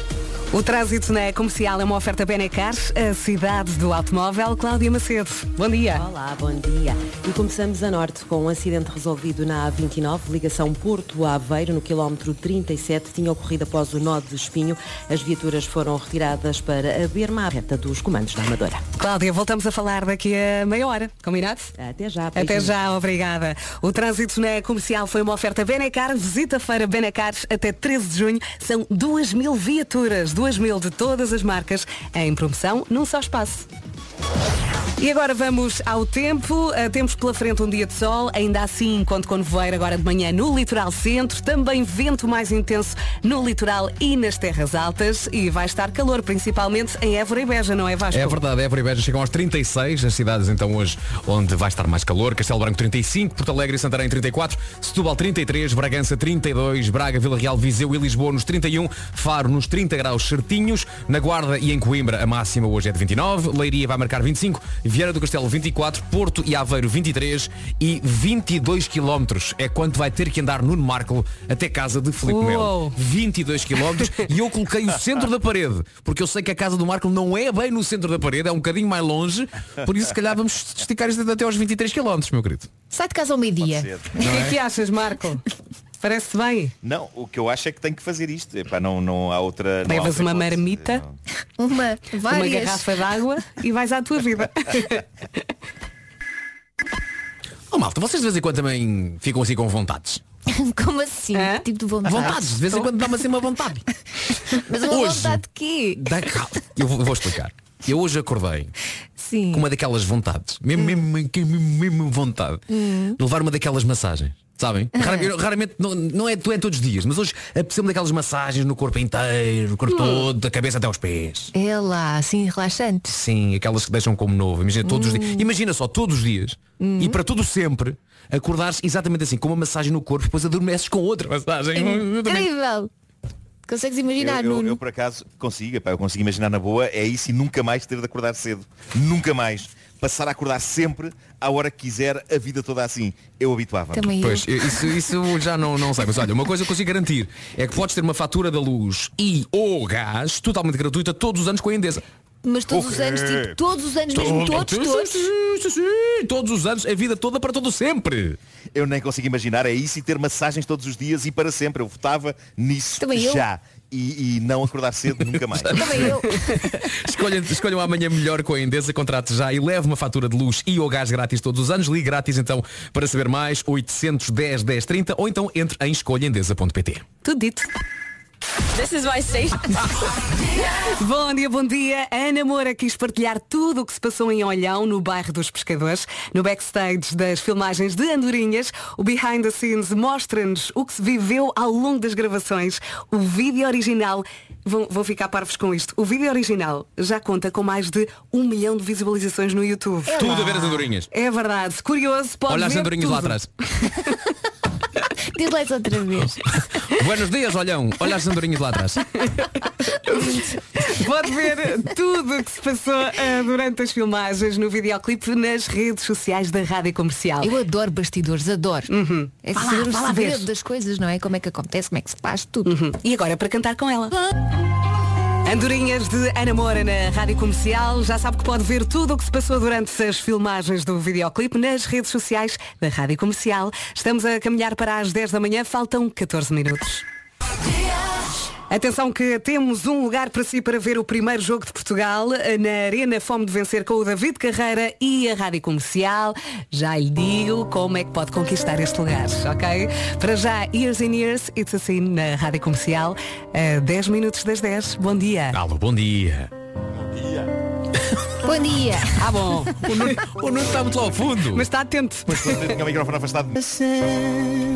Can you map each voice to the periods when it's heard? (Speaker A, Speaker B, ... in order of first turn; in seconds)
Speaker A: 0.5-6.0, 19.0-21.7, 22.3-33.7, 35.0-48.4, 72.2-73.0, 84.2-85.4, 86.0-86.7, 89.8-91.0, 92.3-95.0, 101.3-101.6, 177.2-177.7, 180.8-200.4, 201.1-203.3, 210.0-217.5, 218.9-220.4, 222.7-224.2, 225.4-237.0, 238.7-255.6, 259.2-260.1, 261.5-262.6
Speaker B: 5.9-18.8, 21.8-22.8
Speaker C: 48.1-82.7, 84.2-84.6, 97.7-100.2, 102.0-103.8, 104.8-105.4, 106.0-108.7, 109.5-112.6, 113.2-121.5, 123.1-132.5, 144.2-152.0, 154.1-158.4, 165.5-177.0, 200.2-201.1, 202.5-203.5, 206.8-209.1, 255.5-256.5, 259.8-261.7
Speaker D: 82.9-83.9, 91.6-92.8, 100.5-102.6, 104.6-106.2, 109.2-109.7, 110.8-111.0, 112.7-113.2, 114.9-115.3, 119.9-120.3, 121.5-123.2, 124.8-125.5, 126.8-127.2, 131.7-132.9, 133.7-134.8, 143.9-144.9, 152.4-155.3, 163.0-163.4, 165.7-166.3, 200.1-200.9, 205.3-206.4, 217.4-218.9, 219.4-222.8, 258.4-259.2
Speaker E: 83.6-84.1, 86.8-91.2, 134.2-144.1, 152.7-153.6, 158.7-166.0, 262.3-264.4